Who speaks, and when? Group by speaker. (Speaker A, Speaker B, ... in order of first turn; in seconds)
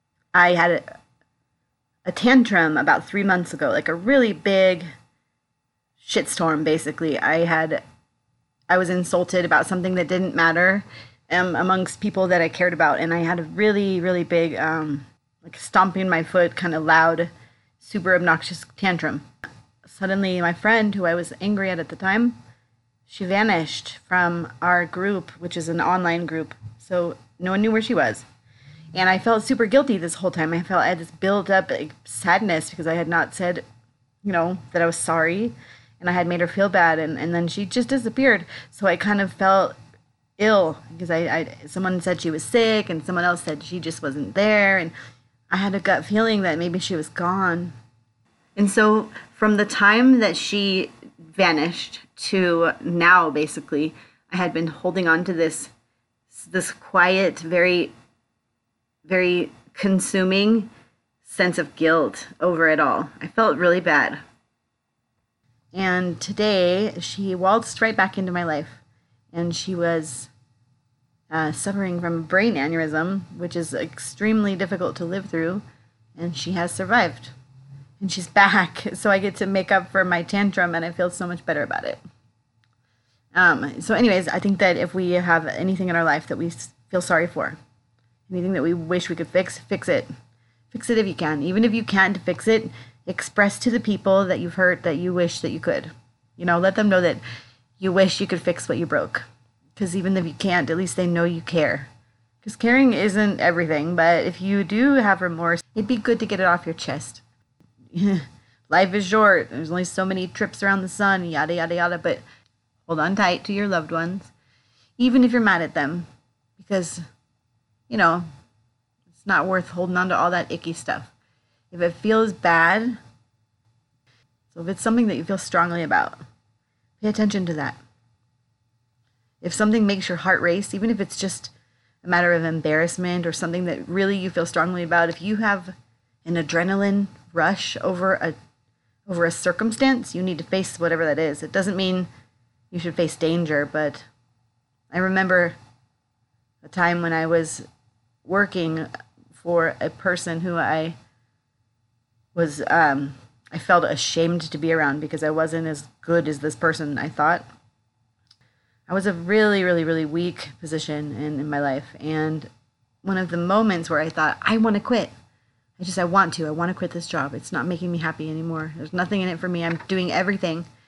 Speaker A: 0.3-0.8, 2.0-4.9, 6.0-7.8, 8.7-19.2, 19.8-22.4, 23.1-28.2, 28.9-33.6, 34.2-39.8, 40.4-44.9, 45.5-47.7, 48.5-55.7, 56.3-57.9, 59.0-60.7, 61.2-64.2, 65.7-68.8, 69.3-70.3, 71.3-75.6, 76.2-77.3, 78.0-82.0, 83.3-87.6, 88.3-90.1, 90.7-97.2, 97.8-99.2, 99.8-101.9, 102.4-107.2, 107.9-112.2, 112.8-114.3, 115.0-116.1, 116.6-117.0, 117.9-118.2, 119.2-121.1, 121.7-123.0, 124.5-126.2, 127.0-127.8, 129.4-135.7, 136.2-138.3, 139.1-142.1, 142.7-144.1, 144.9-145.5, 146.6-147.7, 148.2-151.0, 152.3-157.4, 158.9-162.5, 163.0-165.1, 165.8-170.7